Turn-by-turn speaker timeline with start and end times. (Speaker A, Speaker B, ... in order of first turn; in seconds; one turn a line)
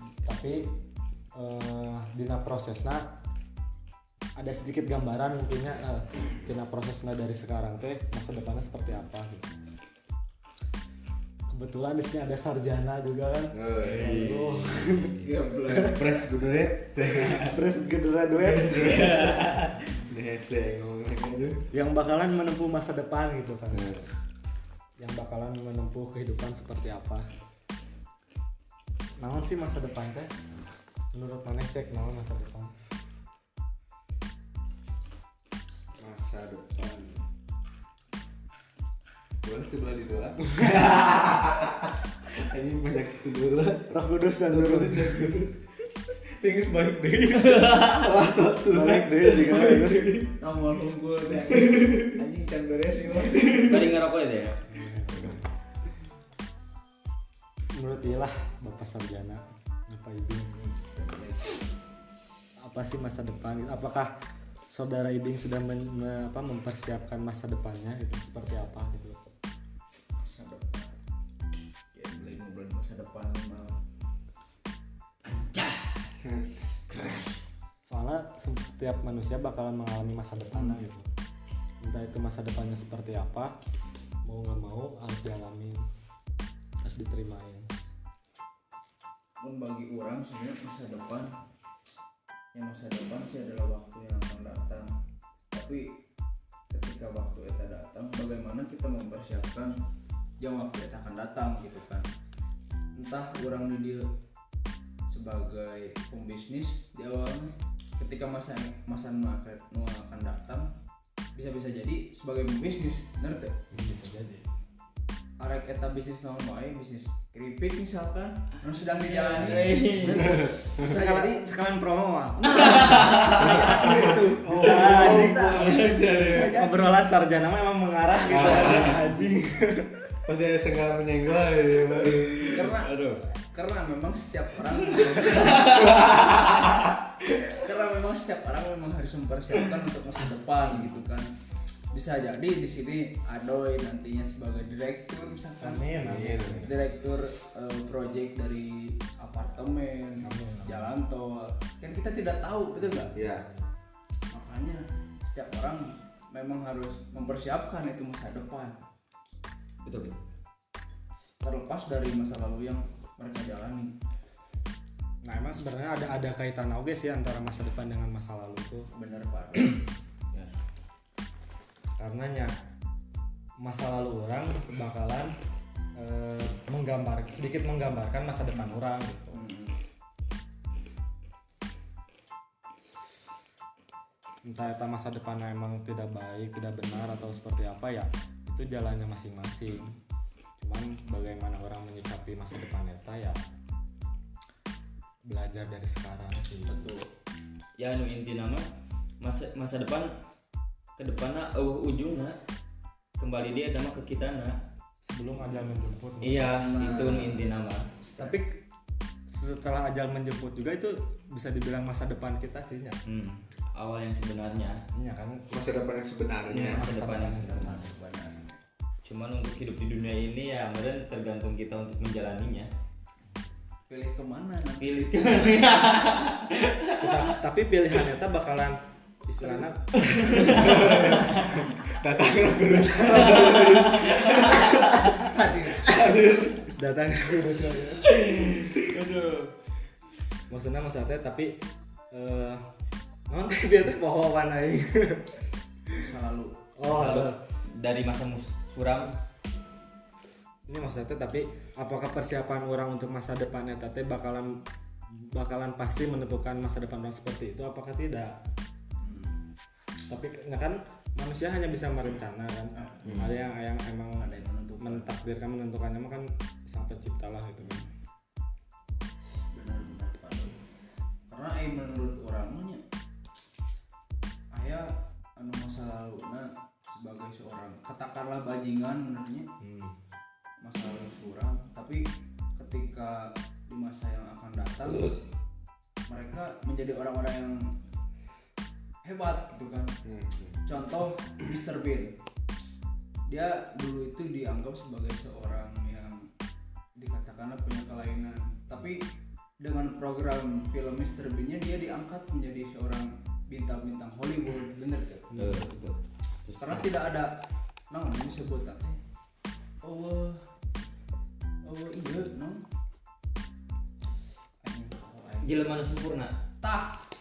Speaker A: 0.2-0.7
Speaker A: 1.4-3.1
Speaker A: 4.4-9.5
Speaker A: 11.5-16.0
Speaker B: 13.5-14.4
Speaker C: 13.8-15.3
Speaker D: 15.2-16.2
Speaker B: 15.7-17.6
Speaker A: 17.3-19.4
Speaker B: 18.3-21.6
Speaker A: 21.7-23.9
Speaker B: 23.7-24.1
Speaker A: 25.0-27.2
Speaker A: 29.2-30.3
Speaker A: 31.1-32.7
Speaker B: 36.0-37.2
Speaker B: 39.4-43.9
Speaker A: 43.9-45.5
Speaker B: 44.4-45.5
Speaker B: 46.4-50.3
Speaker C: 47.4-48.1
Speaker A: 48.6-50.2
Speaker D: 50.4-54.0
Speaker B: 51.5-52.2
Speaker B: 53.4-53.7
Speaker C: 53.6-54.6
Speaker A: 54.7-55.4
Speaker A: 57.8-60.5
Speaker D: 60.5-61.6
Speaker A: 62.6-64.1
Speaker A: 64.7-69.2
Speaker D: 70.2-71.0
Speaker D: 71.9-73.8
Speaker C: 75.2-76.2
Speaker B: 76.2-77.2
Speaker C: 76.9-77.4
Speaker A: 77.9-81.1
Speaker D: 80.5-80.8
Speaker A: 81.8-83.5
Speaker A: 84.2-85.8
Speaker A: 86.8-87.7
Speaker D: 89.4-91.3
Speaker D: 92.5-94.9
Speaker D: 95.5-96.0
Speaker D: 96.7-99.7
Speaker D: 100.4-102.1
Speaker D: 103.0-104.0
Speaker D: 105.1-110.7
Speaker D: 111.3-113.6
Speaker A: 113.7-114.5
Speaker D: 115.4-121.5
Speaker C: 118.6-120.5
Speaker A: 119.4-119.8
Speaker B: 120.2-120.9
Speaker A: 120.8-125.9
Speaker C: 122.4-124.2
Speaker D: 122.5-127.1
Speaker B: 123.2-126.6
Speaker C: 125.6-126.0
Speaker A: 126.4-130.0
Speaker B: 128.3-129.1
Speaker B: 130.3-132.7
Speaker D: 132.5-132.9
Speaker C: 132.6-133.2
Speaker D: 133.5-136.1
Speaker C: 135.0-136.1
Speaker B: 135.4-136.9
Speaker D: 137.3-141.3
Speaker D: 141.9-153.1
Speaker A: 145.6-146.8
Speaker B: 145.9-146.7
Speaker A: 150.2-150.9
Speaker A: 152.8-153.7
Speaker B: 153.1-153.4
Speaker D: 154.3-158.8
Speaker C: 159.8-160.2
Speaker D: 161.4-163.9
Speaker A: 165.2-168.9
Speaker D: 168.9-169.8
Speaker A: 172.0-172.5
Speaker A: 173.6-175.3
Speaker A: 175.9-179.4
Speaker D: 179.3-179.7
Speaker A: 184.4-189.9
Speaker A: 190.6-193.4
Speaker A: 195.2-196.8
Speaker D: 196.7-197.1
Speaker C: 197.8-198.7
Speaker C: 199.2-200.1
Speaker C: 201.0-202.4
Speaker C: 203.2-204.6
Speaker A: 205.0-207.1
Speaker C: 206.2-207.9
Speaker D: 206.6-207.4
Speaker A: 208.0-208.6
Speaker A: 209.3-213.0
Speaker C: 213.1-214.8
Speaker A: 214.9-215.8
Speaker B: 215.5-216.9
Speaker C: 216.5-217.9
Speaker A: 216.6-217.9
Speaker D: 217.1-218.5
Speaker C: 219.0-222.7
Speaker D: 223.9-225.7
Speaker C: 224.8-227.3
Speaker A: 227.0-230.9
Speaker C: 229.9-231.6
Speaker B: 230.4-236.6
Speaker C: 233.1-235.3
Speaker D: 235.2-235.9
Speaker A: 236.6-238.1
Speaker C: 238.0-239.5
Speaker A: 240.5-241.6
Speaker A: 242.1-242.7
Speaker A: 243.3-245.4
Speaker D: 245.9-246.7
Speaker A: 246.8-247.4
Speaker C: 246.9-249.1
Speaker A: 250.7-258.4
Speaker D: 259.0-259.4
Speaker A: 260.1-267.9
Speaker D: 262.8-263.3
Speaker B: 263.0-263.3
Speaker D: 264.2-265.1
Speaker D: 269.5-270.6
Speaker D: 271.3-272.8
Speaker D: 274.5-279.5
Speaker A: 279.6-279.9
Speaker D: 280.6-282.0
Speaker D: 282.6-285.1
Speaker D: 286.1-287.7
Speaker D: 289.0-289.9
Speaker B: 290.0-290.6
Speaker D: 290.7-292.1
Speaker D: 293.3-296.3
Speaker D: 296.9-299.1
Speaker D: 299.6-305.3
Speaker C: 305.3-307.0
Speaker A: 305.4-305.7
Speaker D: 306.6-307.3
Speaker D: 307.9-309.0
Speaker D: 309.8-310.4
Speaker D: 311.6-312.6
Speaker D: 314.6-315.8
Speaker C: 315.4-316.3
Speaker D: 316.6-317.0